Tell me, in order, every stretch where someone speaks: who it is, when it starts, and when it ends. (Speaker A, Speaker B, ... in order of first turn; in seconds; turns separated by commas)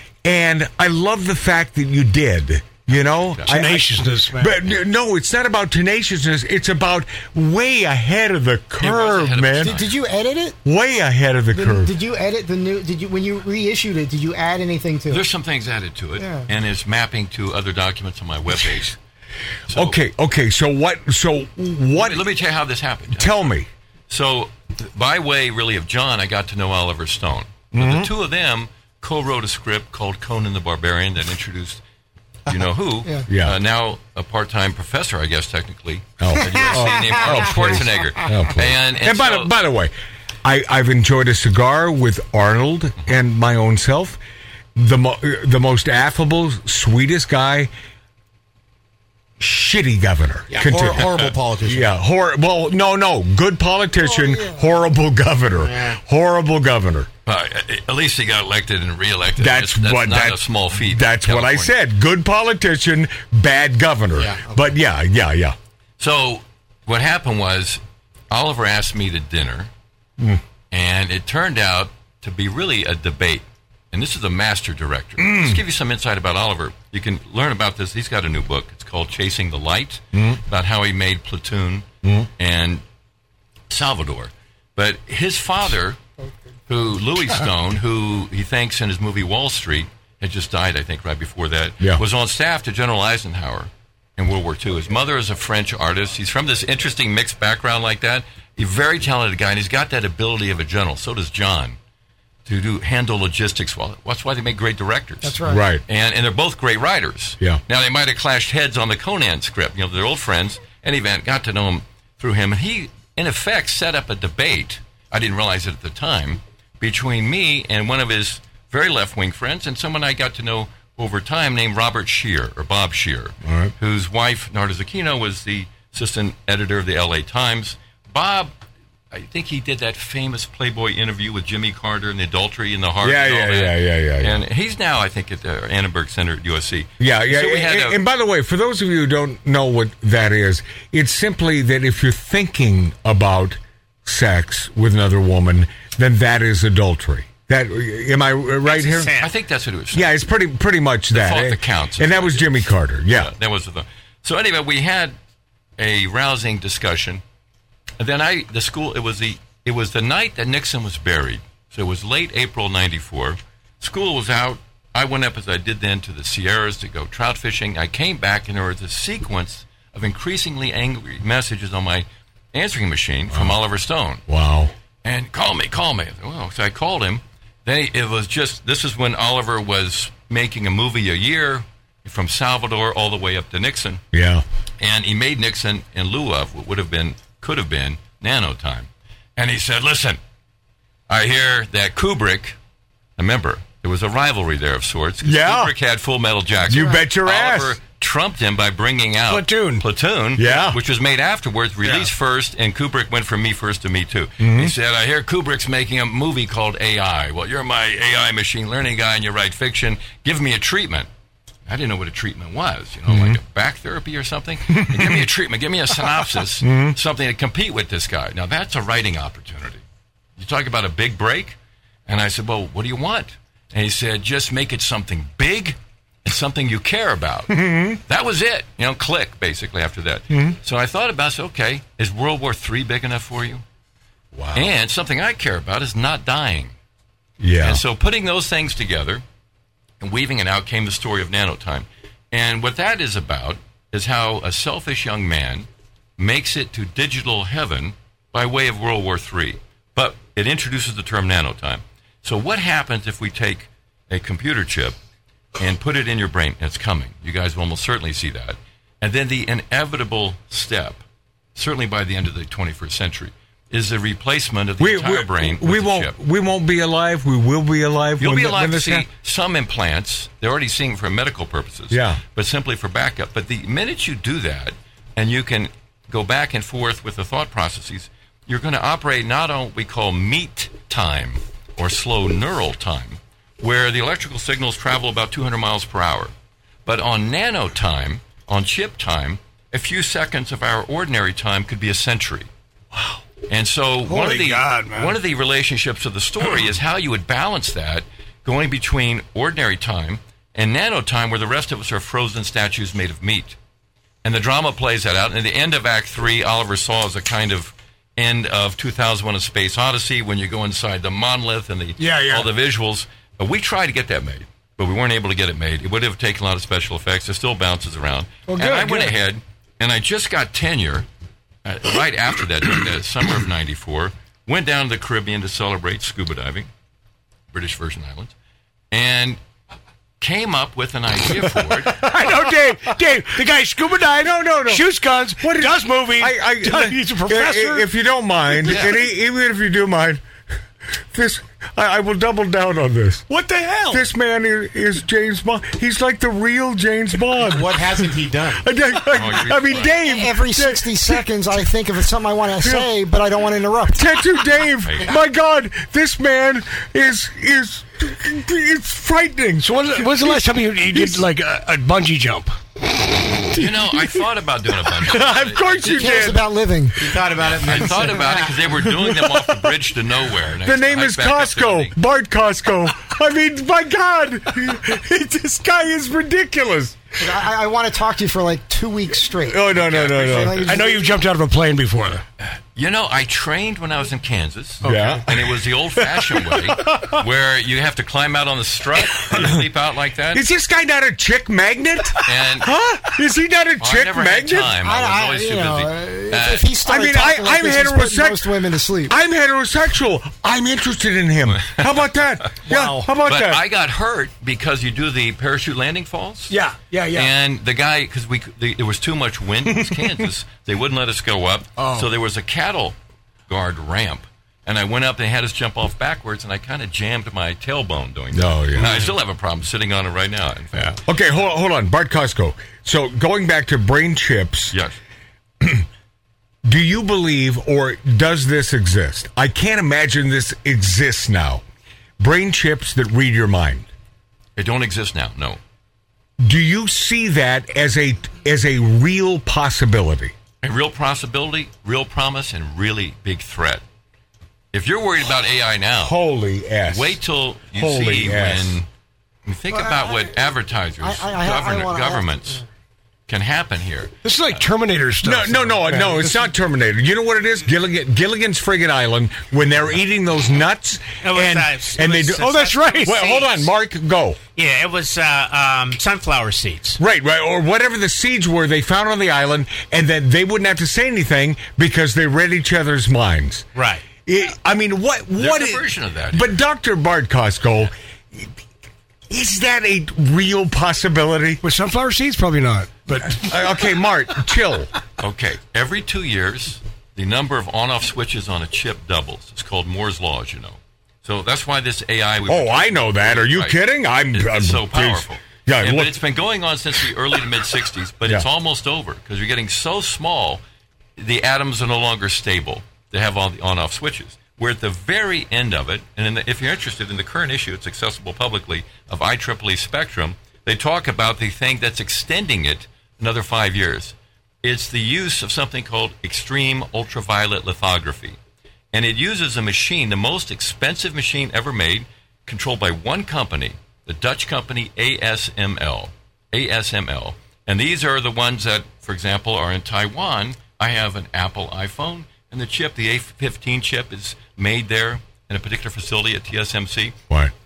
Speaker A: 0.2-9.8, Speaker B: 2.9-3.5, Speaker C: 3.5-4.7, Speaker B: 8.8-9.9, Speaker D: 9.6-10.6, Speaker A: 10.7-11.9, Speaker D: 11.5-15.2, Speaker B: 15.1-19.0, Speaker D: 16.2-16.5, Speaker B: 19.7-20.0, Speaker A: 19.7-22.3, Speaker B: 21.9-23.4, Speaker A: 23.1-23.7, Speaker B: 24.1-31.8, Speaker A: 27.7-28.1, Speaker B: 32.5-39.5, Speaker D: 32.5-33.3, Speaker A: 33.3-33.6, Speaker A: 36.2-39.9, Speaker D: 36.3-38.5, Speaker A: 40.4-44.2, Speaker A: 44.8-47.7, Speaker A: 49.4-57.1, Speaker E: 50.5-51.9, Speaker D: 54.0-54.6, Speaker E: 55.6-56.0, Speaker B: 57.3-61.7, Speaker A: 59.4-65.6, Speaker E: 64.2-64.6, Speaker B: 66.0-69.7, Speaker B: 70.7-81.9, Speaker A: 75.2-75.6, Speaker A: 80.1-80.4, Speaker A: 82.0-82.3, Speaker B: 82.4-82.8, Speaker B: 83.7-86.0, Speaker B: 86.7-101.8, Speaker B: 102.5-128.6, Speaker D: 105.2-105.7, Speaker A: 105.5-105.8, Speaker A: 123.4-123.7, Speaker B: 129.1-138.0, Speaker A: 133.0-134.4, Speaker A: 137.0-149.1, Speaker F: 148.6-149.3, Speaker B: 149.2-150.2, Speaker A: 149.9-153.3, Speaker B: 151.1-155.2, Speaker B: 155.8-157.2, Speaker B: 158.0-174.2, Speaker A: 173.3-173.6, Speaker A: 174.3-174.7, Speaker B: 175.0-184.0, Speaker A: 184.1-184.4, Speaker B: 184.8-190.2, Speaker B: 191.1-192.6, Speaker B: 193.2-211.1, Speaker A: 195.2-195.7, Speaker A: 196.7-197.8, Speaker D: 196.7-197.0, Speaker C: 199.3-199.9, Speaker A: 200.4-200.8, Speaker A: 204.4-204.7, Speaker B: 211.7-219.8, Speaker A: 213.1-213.4, Speaker A: 214.7-215.3, Speaker A: 216.6-217.0, Speaker B: 220.4-221.6, Speaker B: 222.1-233.6, Speaker A: 227.5-228.0, Speaker A: 230.3-230.6, Speaker A: 234.3-234.7, Speaker B: 234.5-236.7, Speaker A: 237.4-237.8, Speaker B: 237.6-239.2, Speaker B: 240.0-245.7, Speaker B: 246.2-254.9, Speaker B: 255.6-261.0, Speaker B: 261.6-266.2, Speaker A: 264.8-269.1, Speaker B: 268.2-286.3, Speaker A: 271.9-272.2, Speaker B: 286.9-292.5, Speaker B: 293.5-303.6, Speaker C: 294.1-295.2, Speaker B: 304.2-321.1, Speaker C: 312.0-312.5, Speaker C: 318.5-319.2, Speaker B: 321.6-326.7, Speaker B: 327.5-328.3, Speaker B: 328.9-329.4, Speaker B: 330.2-332.1, Speaker C: 331.3-337.9, Speaker A: 334.1-334.9, Speaker A: 335.4-340.2, Speaker C: 338.5-338.9, Speaker B: 338.7-339.0, Speaker A: 341.1-343.3, Speaker C: 343.3-344.0, Speaker A: 343.9-351.7, Speaker E: 347.4-348.7, Speaker B: 349.1-350.0, Speaker D: 350.0-354.1, Speaker A: 352.6-352.9, Speaker A: 353.9-361.2, Speaker B: 354.8-355.1, Speaker C: 359.6-362.6, Speaker B: 363.5-366.0, Speaker A: 363.5-364.2, Speaker A: 364.9-366.5, Speaker D: 365.8-367.1, Speaker E: 367.0-368.6, Speaker B: 367.4-371.9, Speaker A: 368.7-369.8, Speaker A: 370.6-377.0, Speaker D: 377.2-381.1, Speaker A: 379.4-380.7, Speaker B: 379.8-380.7, Speaker C: 380.7-382.2, Speaker B: 382.4-390.4, Speaker A: 384.8-387.2, Speaker A: 389.2-389.6, Speaker A: 390.3-394.8, Speaker B: 392.2-392.8, Speaker B: 393.8-396.7, Speaker D: 394.8-399.1, Speaker A: 396.8-403.7, Speaker B: 401.5-402.1, Speaker C: 402.7-403.1, Speaker B: 403.2-406.6, Speaker C: 406.5-407.3, Speaker B: 407.1-413.0, Speaker C: 411.8-412.1, Speaker B: 413.5-421.0, Speaker A: 418.3-419.1, Speaker A: 420.8-424.8, Speaker B: 424.7-425.0, Speaker A: 425.6-425.9, Speaker A: 426.6-431.6, Speaker A: 432.2-433.9, Speaker B: 434.6-435.6, Speaker A: 436.4-440.3, Speaker B: 440.6-443.8, Speaker B: 444.7-446.2, Speaker A: 446.0-447.2, Speaker B: 446.9-448.9, Speaker A: 447.7-448.8, Speaker B: 449.5-452.6, Speaker D: 449.7-450.4, Speaker D: 451.0-452.6, Speaker B: 453.3-454.6, Speaker C: 454.2-456.5, Speaker A: 455.2-464.4, Speaker F: 461.2-463.7, Speaker C: 462.4-463.2, Speaker F: 464.6-467.0, Speaker A: 467.0-473.7, Speaker F: 473.8-474.1, Speaker A: 474.2-478.5, Speaker B: 475.4-476.5, Speaker A: 479.3-481.6, Speaker C: 481.6-483.5, Speaker A: 483.2-484.9, Speaker B: 485.2-500.6, Speaker A: 492.5-496.2, Speaker B: 501.2-518.4, Speaker B: 518.9-537.2